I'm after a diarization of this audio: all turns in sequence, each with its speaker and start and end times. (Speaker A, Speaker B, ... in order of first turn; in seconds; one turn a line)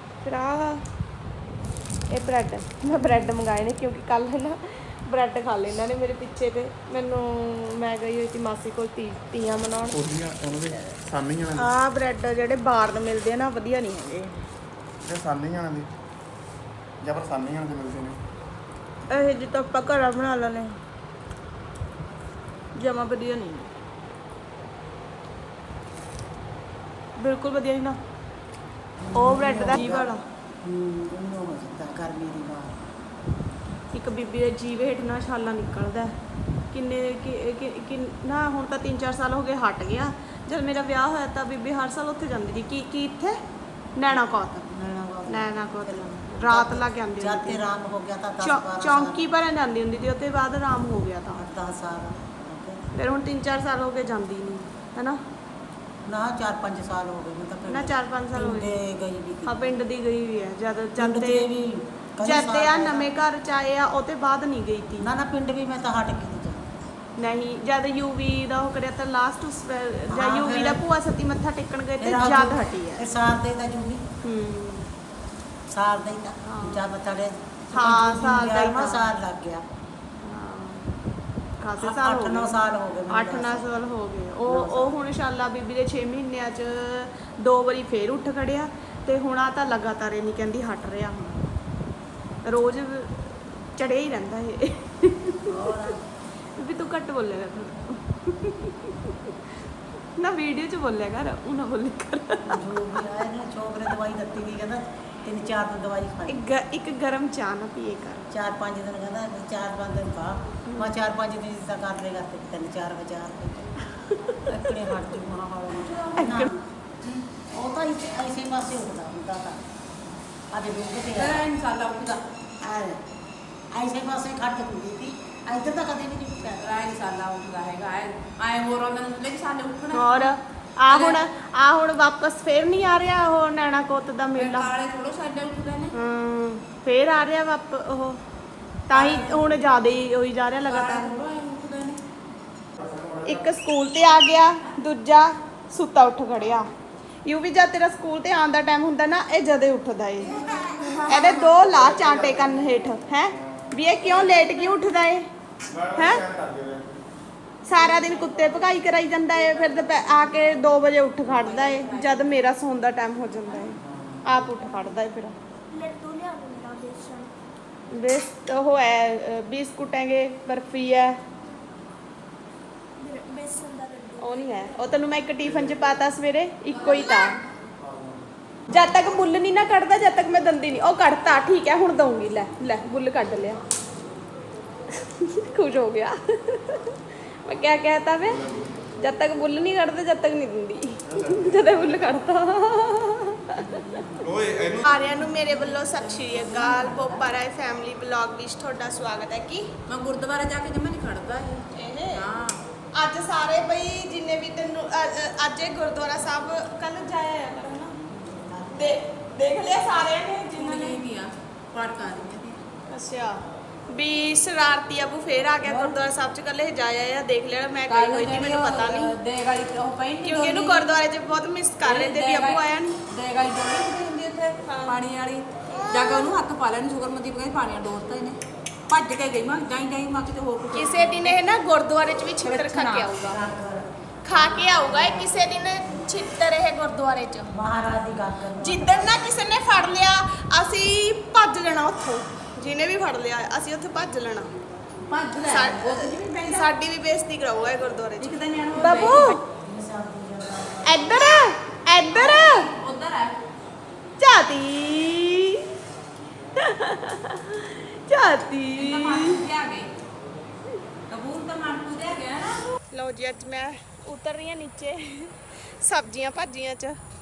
Speaker A: 0.2-0.8
Speaker A: 2.1-10.0
Speaker B: 3.0-3.2
Speaker B: 9.9-11.7
Speaker A: 11.5-14.3
Speaker B: 15.0-15.9
Speaker B: 17.0-18.2
Speaker A: 19.1-20.7
Speaker A: 22.7-23.7
Speaker A: 27.2-28.0
Speaker C: 29.0-32.8
Speaker A: 29.1-30.2
Speaker A: 33.9-36.1
Speaker A: 36.7-43.4
Speaker A: 44.0-44.7
Speaker C: 44.7-49.3
Speaker A: 45.3-47.6
Speaker A: 48.4-51.4
Speaker C: 51.3-52.9
Speaker A: 52.9-55.2
Speaker C: 56.0-59.7
Speaker A: 57.7-58.8
Speaker A: 59.4-61.5
Speaker C: 61.0-63.1
Speaker A: 62.2-65.1
Speaker C: 65.0-66.8
Speaker A: 67.2-73.1
Speaker C: 70.1-70.8
Speaker C: 72.0-74.0
Speaker A: 74.2-74.9
Speaker C: 75.7-79.6
Speaker A: 76.5-76.8
Speaker A: 77.7-79.1
Speaker A: 80.2-80.8
Speaker A: 81.6-91.5
Speaker C: 81.8-83.7
Speaker C: 84.5-85.0
Speaker A: 92.4-95.7
Speaker C: 95.5-96.0
Speaker A: 96.6-99.0
Speaker A: 100.2-102.6
Speaker C: 102.5-106.4
Speaker A: 106.3-108.2
Speaker C: 108.3-113.8
Speaker A: 110.7-111.0
Speaker A: 113.9-114.8
Speaker C: 114.4-116.5
Speaker A: 116.2-116.5
Speaker C: 117.4-119.6
Speaker C: 120.5-121.5
Speaker D: 121.1-122.2
Speaker C: 122.6-123.0
Speaker C: 123.7-126.7
Speaker D: 126.6-130.3
Speaker A: 129.9-134.8
Speaker D: 130.9-131.2
Speaker D: 134.3-135.9
Speaker A: 135.9-138.2
Speaker A: 138.9-141.2
Speaker D: 138.9-139.5
Speaker D: 140.6-142.0
Speaker B: 142.8-143.5
Speaker A: 143.2-146.7
Speaker A: 147.2-150.4
Speaker D: 150.3-152.2
Speaker A: 151.1-155.2
Speaker B: 155.6-157.0
Speaker A: 155.9-156.2
Speaker A: 157.6-165.3
Speaker D: 157.7-158.6
Speaker D: 161.3-162.3
Speaker B: 163.8-164.4
Speaker E: 165.7-167.3
Speaker A: 167.9-171.2
Speaker E: 173.0-174.7
Speaker A: 174.2-177.4
Speaker B: 175.4-175.8
Speaker D: 176.7-177.3
Speaker B: 177.8-178.2
Speaker A: 178.7-183.6
Speaker A: 185.0-188.4
Speaker B: 188.3-188.7
Speaker A: 189.0-193.8
Speaker B: 191.0-192.2
Speaker D: 193.7-194.2
Speaker B: 194.2-194.9
Speaker A: 194.8-199.7
Speaker D: 194.9-197.2
Speaker D: 199.9-202.6
Speaker A: 201.7-202.3
Speaker A: 202.9-207.9
Speaker C: 208.1-209.0
Speaker A: 208.7-211.0
Speaker D: 210.5-212.6
Speaker A: 212.9-219.2
Speaker D: 215.6-216.0
Speaker D: 217.9-220.9
Speaker A: 220.2-223.0
Speaker D: 221.8-228.4
Speaker A: 224.6-225.0
Speaker A: 225.7-226.2
Speaker D: 228.9-231.4
Speaker A: 230.7-233.4
Speaker D: 232.4-233.3
Speaker C: 233.3-235.4
Speaker A: 234.2-237.5
Speaker C: 237.5-239.1
Speaker A: 238.6-244.5
Speaker D: 245.1-246.7
Speaker A: 245.4-249.4
Speaker D: 248.2-249.4
Speaker C: 249.5-251.2
Speaker A: 250.8-252.7
Speaker D: 252.0-253.3
Speaker A: 254.2-255.7
Speaker A: 256.6-259.4
Speaker D: 258.8-259.9
Speaker D: 261.1-262.7
Speaker A: 262.9-267.0